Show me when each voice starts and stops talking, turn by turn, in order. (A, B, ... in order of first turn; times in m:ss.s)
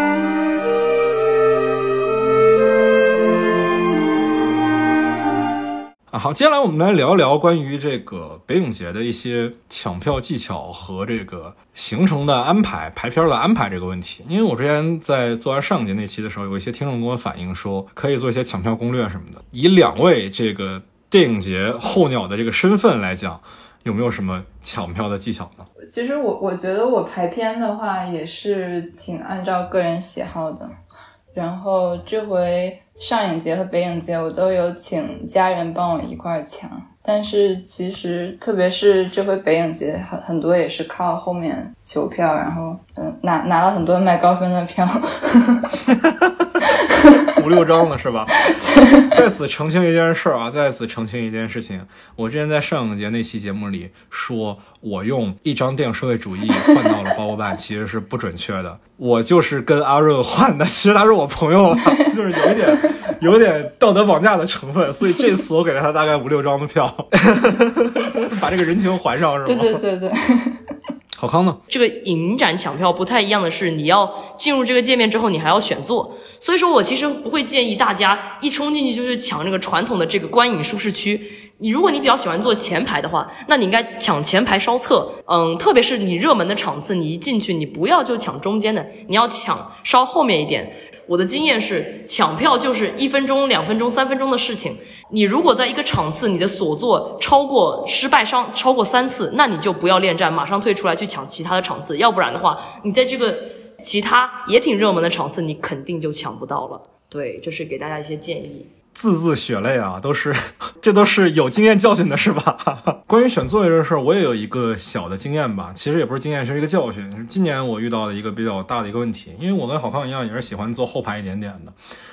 0:06.1-0:25.7 A
0:25.8-0:30.7 B
0:31.3-0:45.8 B
0:45.9-0:46.5 A
0:47.3-0:48.3 A
0:48.5-0:49.1 B
0:49.1-1:09.8 A
1:09.4-1:10.6 B
1:11.1-1:11.6 A
1:11.7-1:48.7 C
1:48.9-2:01.8 A